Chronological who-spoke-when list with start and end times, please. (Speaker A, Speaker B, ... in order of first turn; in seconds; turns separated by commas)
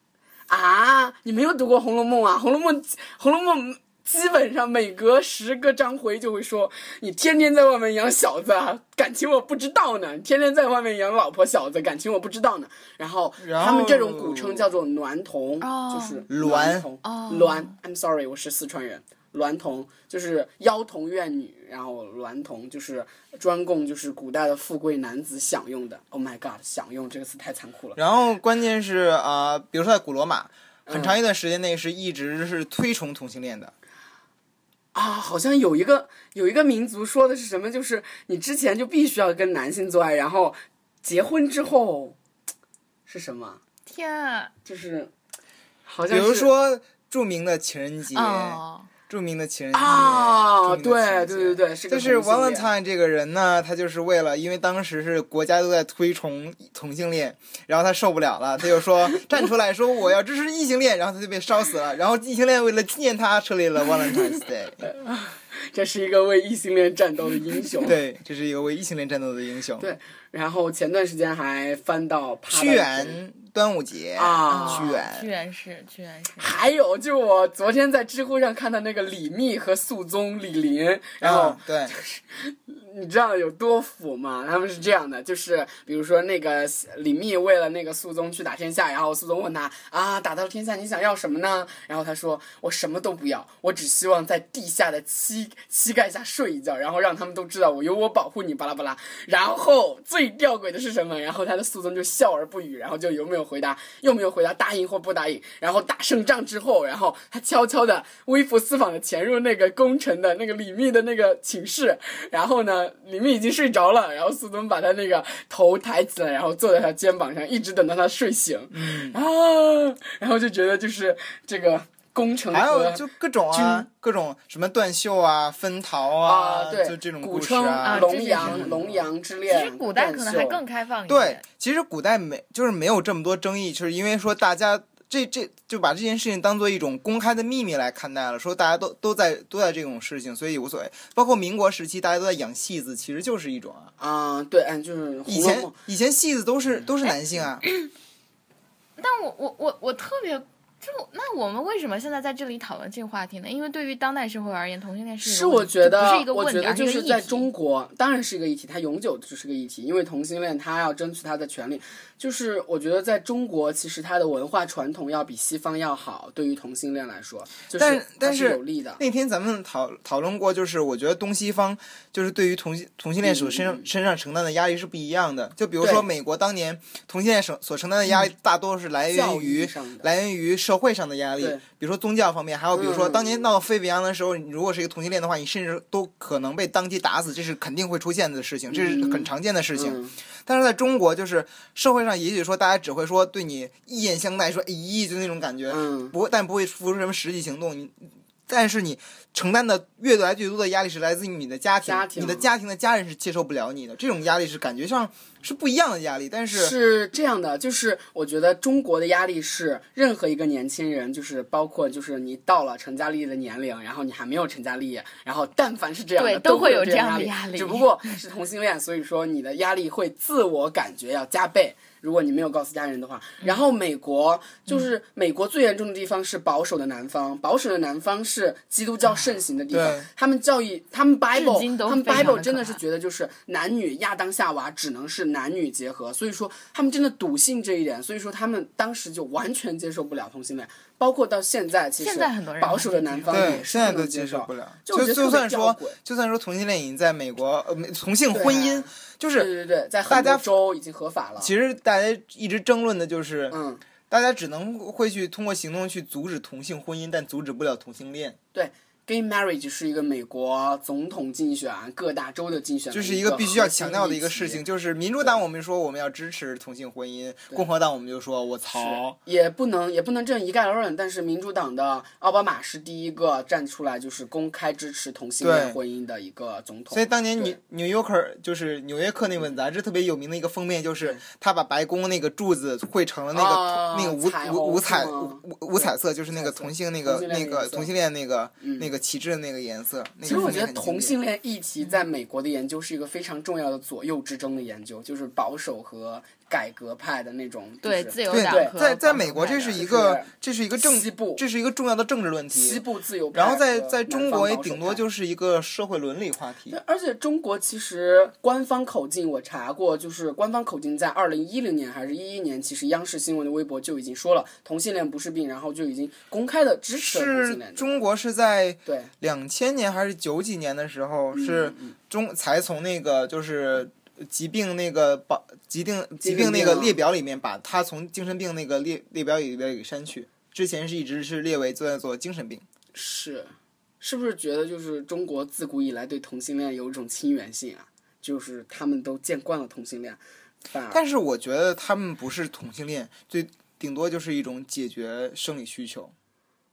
Speaker A: 0.5-28.0, Speaker B: 13.4-14.7, Speaker C: 15.6-16.2, Speaker B: 16.3-16.9, Speaker C: 17.0-17.7, Speaker B: 28.0-33.7, Speaker A: 30.9-31.2, Speaker A: 34.9-42.2, Speaker A: 43.1-43.6, Speaker C: 43.9-44.5, Speaker A: 44.6-45.1, Speaker A: 45.9-46.5, Speaker B: 46.1-64.8, Speaker C: 48.1-48.9, Speaker A: 49.7-52.7, Speaker A: 64.8-68.0, Speaker B: 67.8-69.9, Speaker A: 69.8-73.2, Speaker B: 72.5-75.3, Speaker A: 74.2-75.0, Speaker C: 74.5-76.6, Speaker A: 76.4-123.9, Speaker B: 81.2-81.9, Speaker B: 118.7-119.2, Speaker B: 122.5-129.0, Speaker A: 126.2-130.6, Speaker C: 127.8-128.8, Speaker C: 129.5-131.4, Speaker B: 131.1-143.9, Speaker A: 144.0-145.8, Speaker B: 145.3-147.6, Speaker C: 147.1-147.9, Speaker C: 149.0-157.5, Speaker A: 155.2-169.0, Speaker B: 167.8-206.8, Speaker A: 173.2-173.9, Speaker A: 175.8-176.1, Speaker A: 179.1-180.1, Speaker A: 182.7-183.4, Speaker A: 188.7-190.2, Speaker A: 195.7-196.2, Speaker A: 201.8-202.5, Speaker A: 206.5-246.0, Speaker C: 216.2-218.2, Speaker B: 229.7-230.1, Speaker C: 231.3-232.8, Speaker C: 242.0-243.7, Speaker B: 243.3-249.5, Speaker A: 248.3-251.5, Speaker B: 250.1-250.5, Speaker B: 251.4-253.6, Speaker A: 253.5-253.8, Speaker B: 254.1-258.4, Speaker A: 258.5-264.6, Speaker B: 262.9-269.2, Speaker A: 268.7-277.6, Speaker B: 275.4-275.8, Speaker B: 276.9-291.2, Speaker A: 283.3-287.9, Speaker A: 288.6-288.9, Speaker A: 290.2-298.7, Speaker C: 290.3-290.6, Speaker C: 297.8-299.8, Speaker B: 298.3-302.8, Speaker A: 299.8-301.4, Speaker A: 302.5-305.0, Speaker B: 303.3-306.8, Speaker A: 306.7-317.9, Speaker B: 317.0-332.6, Speaker A: 318.9-319.1, Speaker A: 321.3-322.0, Speaker A: 326.2-327.0, Speaker A: 332.9-341.0, Speaker B: 340.9-346.1